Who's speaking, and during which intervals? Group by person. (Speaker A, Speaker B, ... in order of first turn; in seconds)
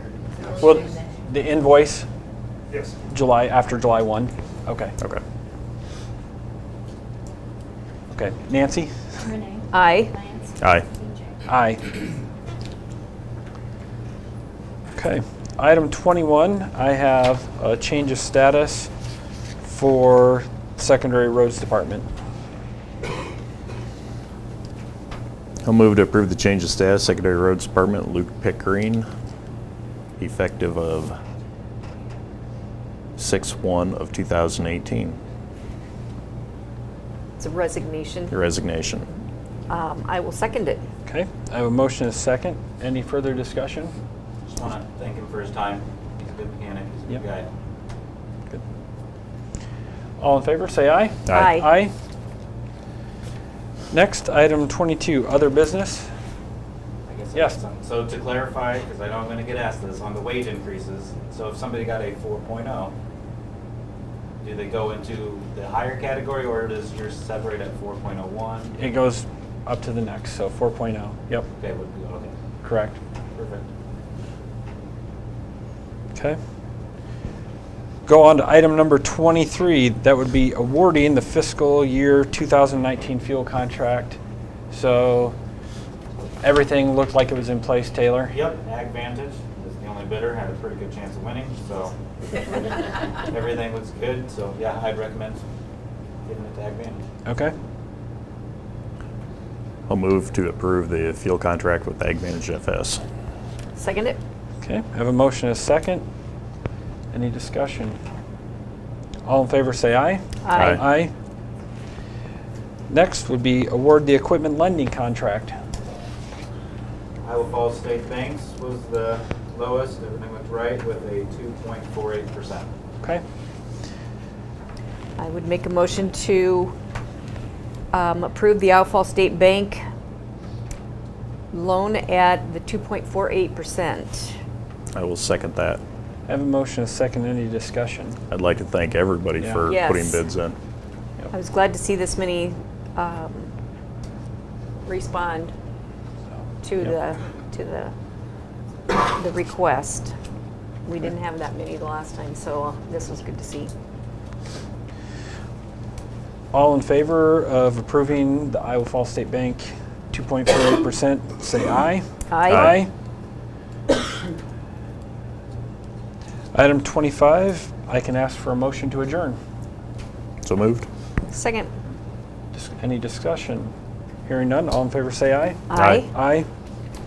Speaker A: 0.5-2.1, 3.1-5.0, 8.1-8.9, 11.5-11.8, 14.9-18.9, 19.6-22.1, 41.1-43.9, 50.2-51.9, 53.9-56.1, 68.8-71.5, 72.6-73.0, 78.1-84.2, 84.7-85.3, 86.4-88.4, 97.2-97.5, 104.6-106.0, 107.1-108.0, 109.2-111.1, 112.9-115.6, 136.3-138.2, 139.4-139.7, 156.5-162.9, 166.5-169.4, 172.5-173.7, 174.3-176.5
Speaker B: 9.2-11.3
Speaker C: 9.7-10.1, 37.4-38.3, 39.7-40.9, 51.3-51.7, 103.8-104.2, 110.4-110.8, 125.2-126.8, 127.9-129.8, 131.5-134.4, 139.7-140.2, 141.3-143.5, 144.8-145.5, 146.6-147.9, 148.9-150.1, 150.9-153.7, 162.3-162.7, 171.3-171.7, 175.7-176.1
Speaker D: 10.6-10.9, 25.6-29.1, 30.2-31.2, 33.2-35.2, 38.3-39.1, 51.3-51.6, 99.9-103.0, 110.5-110.8, 134.9-135.8, 138.3-140.6, 162.5-162.8, 170.4-170.9, 175.8-176.1
Speaker E: 44.5-47.5, 57.1-62.9, 64.4-68.8, 71.6-72.3, 73.3-73.7, 88.3-95.4, 96.3-97.0, 117.2-122.7